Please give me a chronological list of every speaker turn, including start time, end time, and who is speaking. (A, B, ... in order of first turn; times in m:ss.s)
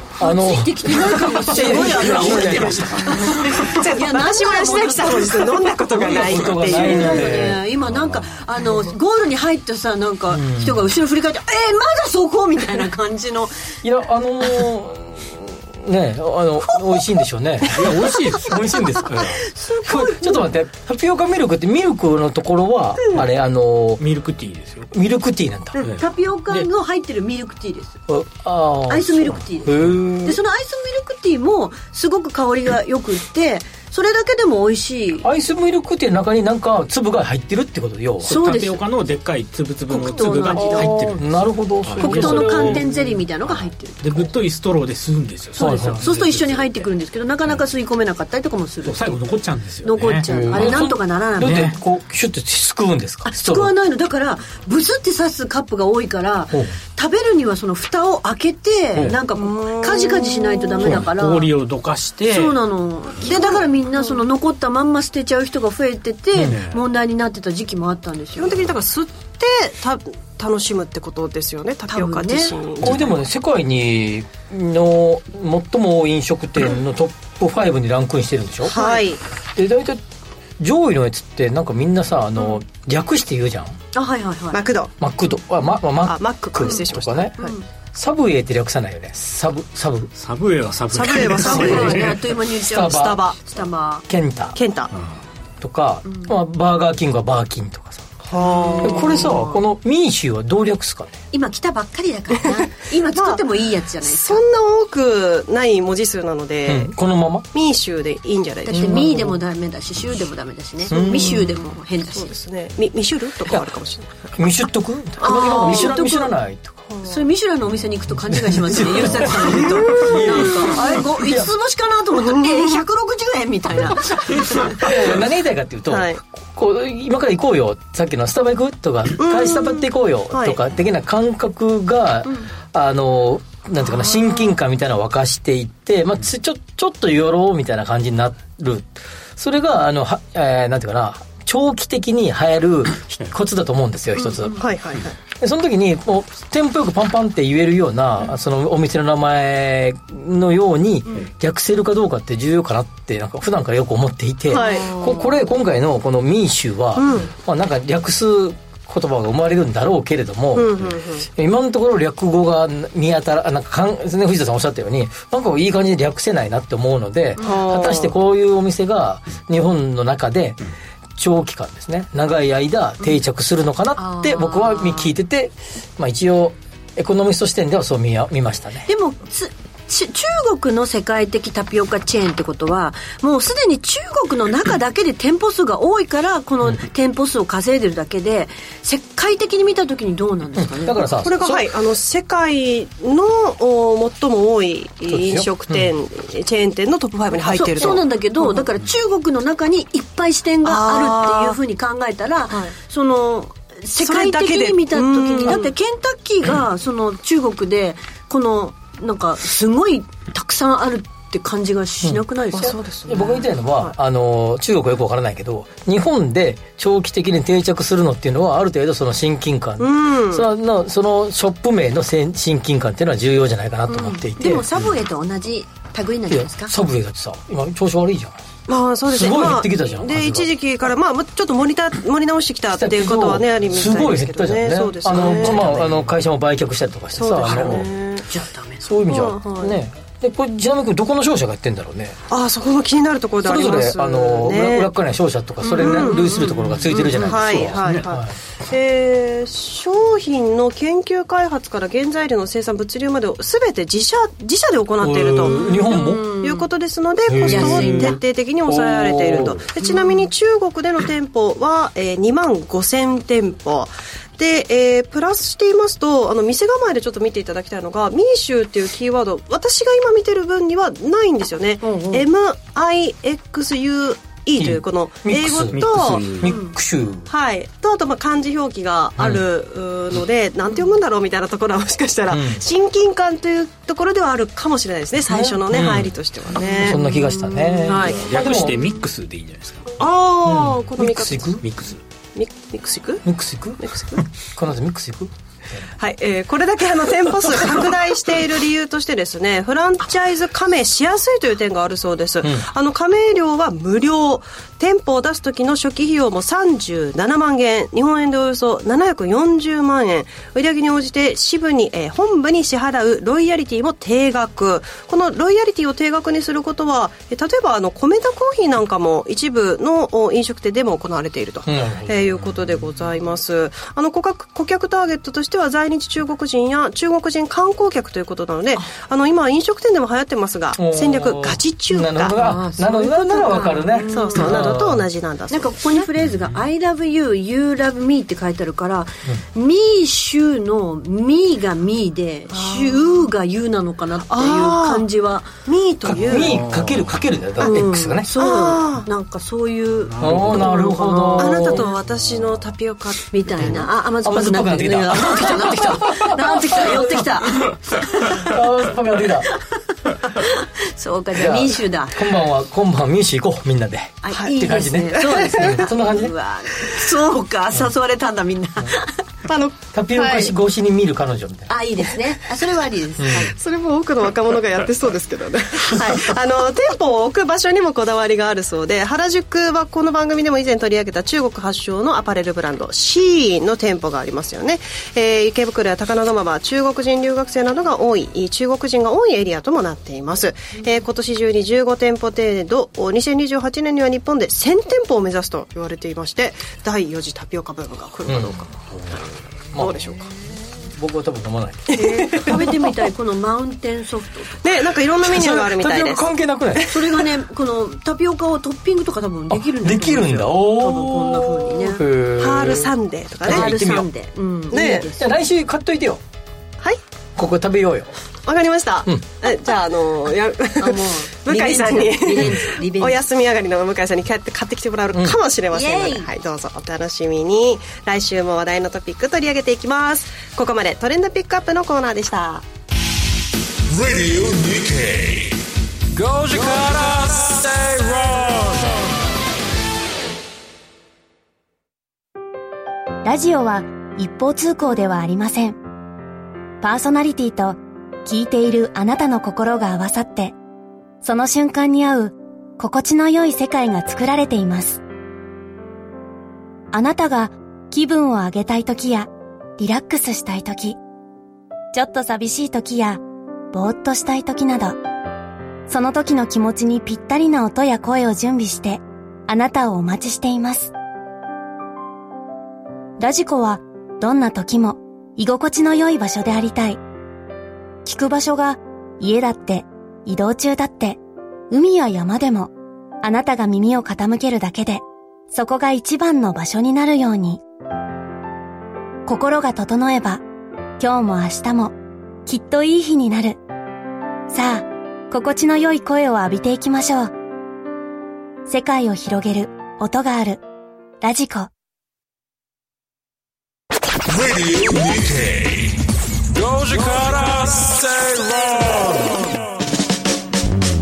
0:00.2-0:03.2 A
0:00.2-0:05.6 B
0:01.6-0:07.4 C
0:02.5-0:02.8 D
0:05.9-0:07.6 A
0:06.5-0:13.5 B
0:07.8-0:08.3 D
0:10.3-0:10.9 A
0:13.8-0:24.0 A
0:17.7-0:18.6 D
0:19.4-0:20.5 B
0:24.0-0:24.9 D
0:24.9-0:25.8 A
0:25.8-0:28.0 B
0:25.8-0:26.7 D
0:28.1-0:30.4 A
0:28.9-0:35.3 B
0:35.2-0:38.4 A
0:38.2-0:38.8 B
0:38.2-0:46.9 D
0:39.9-0:41.0 B
0:40.5-0:42.9 A
0:42.0-0:44.3 B
0:45.6-0:49.2 B
0:45.6-0:46.0 A
0:48.8-0:51.8 D
0:49.8-0:51.7 B
0:50.2-0:53.7 A
0:53.2-1:01.5 B
0:56.5-0:56.8 A
0:59.3-1:00.9 C
1:00.8-1:02.6 D
1:02.3-1:08.6 B
1:03.2-1:04.2 C
1:06.4-1:06.8 D
1:08.4-1:13.1 C
1:11.9-1:12.6 B
1:12.8-1:19.0 A
1:18.6-1:19.2 C
1:19.6-1:20.0 A
1:20.6-1:23.8 A
1:23.9-1:24.6 B
1:24.5-1:24.9 C
1:25.0-1:27.4 A
1:26.0-1:27.5 C
1:27.4-1:27.6 B
1:27.9-1:30.1 A
1:30.2-1:32.2 D
1:30.9-1:32.2 C
1:31.4-1:34.0 B
1:32.6-1:33.3 A
1:32.8-1:33.4 C
1:34.1-1:34.6 A
1:34.6-1:34.9 C
1:35.6-1:38.1 A
1:38.2-1:39.3 C
1:38.4-1:39.6 B
1:38.8-1:41.2 A
1:41.3-1:44.4 B
1:43.1-1:43.4 C
1:44.0-1:46.9 C
1:46.7-1:47.5 A
1:47.5-1:49.3 C
1:48.6-1:52.3 B
1:48.7-1:49.3 A
1:50.9-1:51.6 C
1:50.9-1:51.4 A
1:52.1-1:54.5 C
1:54.4-1:56.8 A
1:55.2-1:56.0 C
1:55.2-1:56.3 B
1:56.9-1:57.2 C
1:57.0-2:04.9 B
1:58.3-2:01.5 A
1:59.9-2:00.8 C
2:04.6-2:24.6 A
2:05.9-2:06.2 C
2:09.2-2:10.6 C
2:24.5-2:25.2 C
2:25.4-2:50.6 A
2:34.5-2:35.4 C
2:34.5-2:35.0 B
2:37.0-2:37.3 C
2:40.6-2:41.3 C
2:47.4-2:47.7 B
2:47.4-2:48.1 C
2:51.2-2:58.9 A
2:54.0-2:55.1 B
2:58.9-3:11.1 B
3:10.6-3:11.7 A
3:11.2-3:18.6 C
3:15.1-3:15.7 A
3:17.3-3:32.8 B
3:20.6-3:21.6 C
3:24.0-3:25.7 C
3:32.0-3:44.7 A
3:32.5-3:33.9 C
3:39.8-3:40.5 C
3:43.9-3:46.7 B
3:46.3-3:48.4 A
3:48.7-3:55.8 C
3:49.1-3:50.5 A
3:52.7-3:57.9 A
3:55.2-3:55.8 B
3:57.2-3:58.2 C
3:57.4-3:58.9 B
3:58.8-4:02.2 A
3:59.1-3:59.8 C
4:02.3-4:04.9 C
4:03.4-4:08.4 A
4:05.6-4:07.7 B
4:05.7-4:06.5 C
4:07.1-4:36.5 C
4:07.8-4:08.1 D
4:15.0-4:16.3 A
4:15.4-4:16.7 B
4:17.3-4:19.7 A
4:17.5-4:18.2 B
4:19.8-4:20.2 B
4:31.8-4:32.2 B
4:34.6-4:37.3 A
4:35.7-4:36.6 D
4:36.5-4:36.7 B
4:37.3-4:47.1 C
4:39.2-4:39.4 A
4:42.3-4:42.6 A
4:45.3-4:48.8 A
4:46.6-4:48.1 B
4:47.8-4:48.3 C
4:47.9-4:50.0 D
4:50.0-4:51.6 C
4:50.5-4:51.6 A
4:51.6-4:52.0 D
4:52.4-4:53.2 C
4:53.2-4:55.8 A
4:53.8-4:54.2 C
4:56.0-5:32.4 C
5:02.4-5:02.7 A
5:21.7-5:22.5 A
5:30.8-5:35.0 A
5:32.4-5:34.7 B
5:33.4-5:36.0 C
5:35.5-5:45.6 B
5:36.2-5:36.6 D
5:42.5-5:43.3 C
5:44.3-5:45.1 C
5:45.6-5:46.6 C
5:46.1-5:48.3 A
5:46.5-5:47.1 D
5:47.6-5:49.1 C
5:47.6-5:51.9 B
5:50.0-5:50.8 D
5:50.2-5:51.9 A
5:51.4-5:53.7 C
5:53.3-5:58.6 B
5:53.6-5:59.5 A
6:00.2-6:02.3 B
6:01.3-6:06.3 A
6:04.2-6:09.2 B
6:05.2-6:05.8 C
6:09.5-6:10.5 C
6:09.9-6:11.7 A
6:11.7-6:13.5 B
6:13.2-6:13.5 A
6:13.3-6:40.3 C
6:38.3-6:39.2 A
6:39.7-6:40.1 A
6:40.9-6:42.7 A
6:41.9-6:42.8 C
6:42.2-6:44.6 B
6:44.6-6:46.3 C
6:45.2-6:47.0 A
6:46.8-6:47.0 C
6:46.9-6:52.0 B
6:49.5-6:52.9 A
6:52.4-6:54.1 C
6:53.4-6:54.1 A
6:53.4-6:55.3 B
6:54.7-6:55.1 C
6:54.7-6:56.2 A
6:57.4-6:58.2 A
6:58.5-7:12.6 C
7:00.8-7:03.2 B
7:05.1-7:05.4 A
7:05.7-7:06.3 B
7:13.9-7:15.6 E
7:16.1-7:19.1 E
7:23.2-7:25.8 F
7:26.8-7:30.6 F
7:31.2-7:35.0 F
7:36.9-7:41.0 F
7:41.9-7:45.0 F
7:45.9-7:50.9 F
7:53.2-7:57.0 F
7:58.0-8:07.6 F
8:09.3-8:10.4 F
8:11.0-8:12.0 F
8:12.5-8:13.6 F
8:14.5-8:17.3 F
8:18.7-8:20.6 F
8:21.2-8:21.7 F
8:24.3-8:26.0 E
8:26.5-8:29.5 E